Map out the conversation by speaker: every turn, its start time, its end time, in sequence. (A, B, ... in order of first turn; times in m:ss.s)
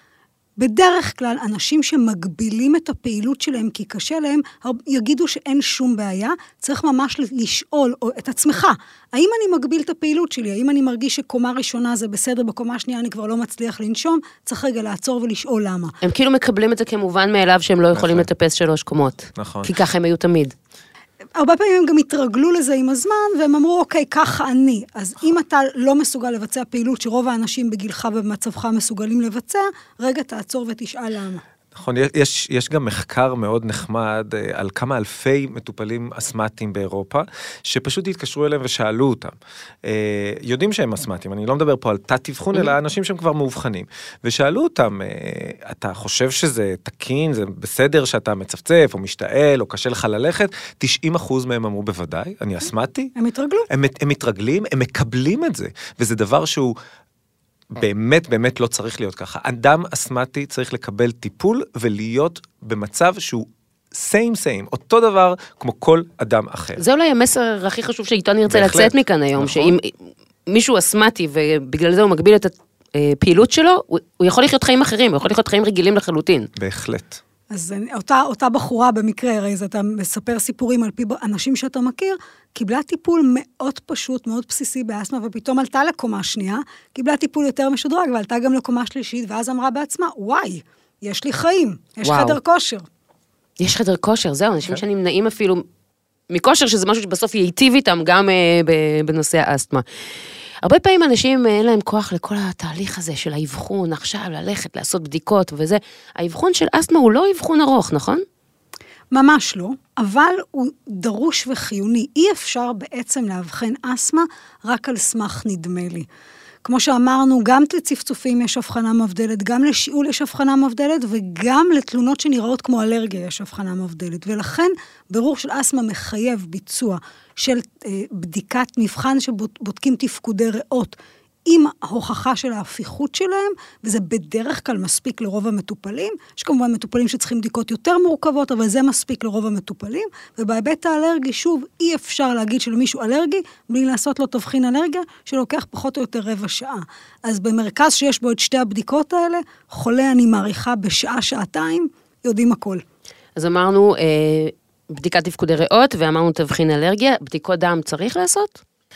0:00.6-0:15.9 A
0:16.0-0:20.5 B
0:17.9-0:18.3 C
0:19.4-0:19.7 C
0:21.3-0:31.4 A
0:31.7-0:53.1 C
0:53.2-0:53.7 A
0:53.7-0:56.7 C
0:57.7-1:06.8 C
1:06.8-1:16.5 B
1:08.5-1:09.7 C
1:16.6-1:17.2 C
1:17.5-1:32.8 A
1:32.0-1:32.4 B
1:33.6-1:35.6 B
1:36.3-1:39.8 B
1:40.6-1:48.2 B
1:49.1-1:56.1 A
1:56.6-2:32.8 A
2:33.4-2:38.6 B